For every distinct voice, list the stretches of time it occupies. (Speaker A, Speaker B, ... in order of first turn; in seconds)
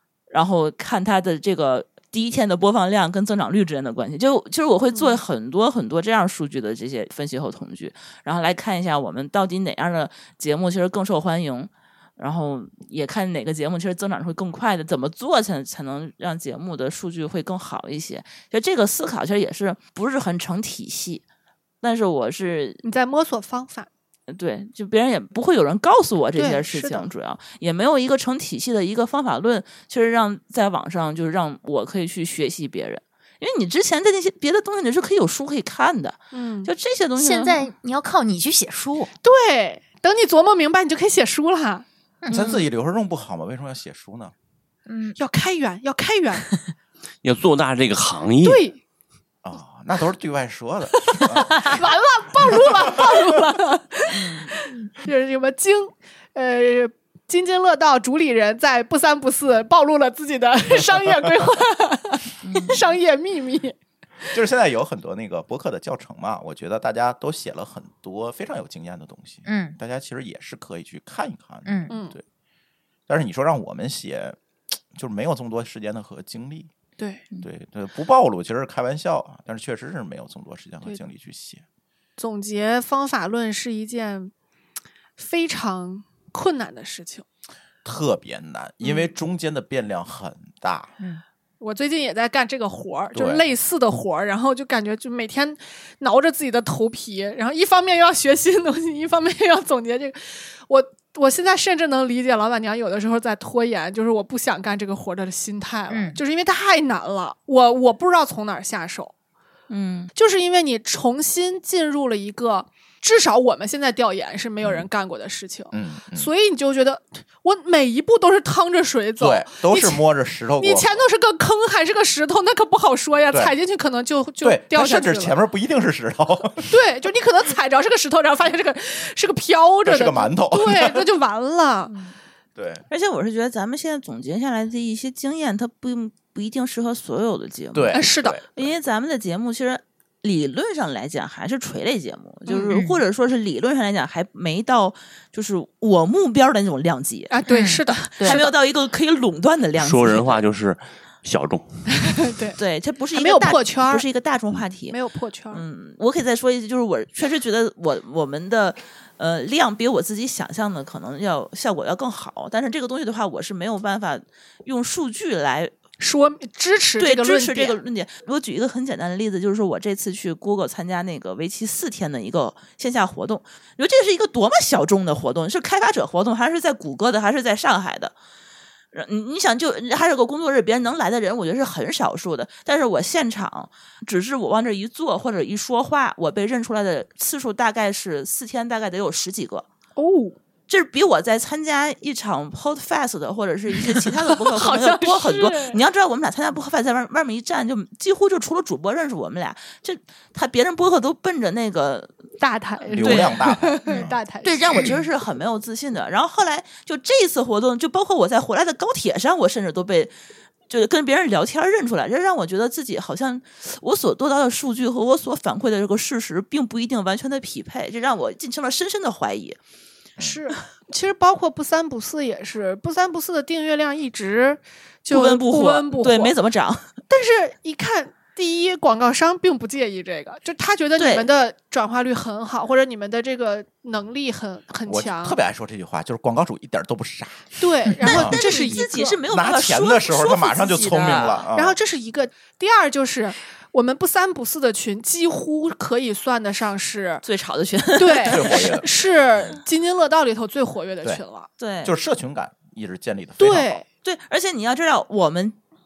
Speaker A: 0.3-21.2, 21.8-22.8, 24.3-37.7, 54.1-54.5, 62.4-62.9, 109.7-110.1, 132.9-150.4, 152.6-155.0, 155.5-165.7, 167.0-178.1, 178.9-189.7, 190.7-202.2, 202.9-203.4, 204.4-210.1, 210.7-219.6, 225.1-226.9, 231.0-231.3, 238.0-241.4, 247.2-248.7, 251.6-251.9, 254.0-255.6
Speaker B: 4.9-5.2, 22.8-23.9, 26.4-27.1, 36.3-36.7, 39.2-41.9, 45.2-46.5, 48.4-48.8, 50.9-64.4, 71.9-72.2, 77.0-77.2, 82.2-84.3, 85.2-87.2, 91.6-109.1, 110.1-120.0, 120.6-125.4, 126.7-131.9, 137.9-138.4, 147.3-148.5, 151.9-152.6, 153.1-154.1, 154.9-155.6, 166.0-167.8, 189.9-190.4, 194.2-195.8, 202.4-204.9, 220.2-226.3, 227.1-235.4, 237.6-239.2, 241.5-247.2, 247.9-251.5, 253.4-253.8
Speaker C: 37.2-39.1, 42.2-42.6, 44.9-45.1, 69.5-69.8, 71.7-71.9, 105.9-106.2, 142.7-143.0, 147.5-148.4
Speaker D: 42.3-44.3, 49.4-51.8, 52.6-53.3, 64.3-72.2, 73.1-74.4, 74.9-76.7, 77.4-81.6, 87.8-91.0, 93.1-93.4, 115.7-116.3, 119.2-121.0, 124.4-126.7, 129.8-131.1, 132.6-132.8, 137.7-138.7, 202.9-204.2, 234.9-237.5, 238.0-238.4, 239.3-241.8, 248.3-248.9, 251.8-253.8
Speaker E: 47.2-48.6, 149.8-151.8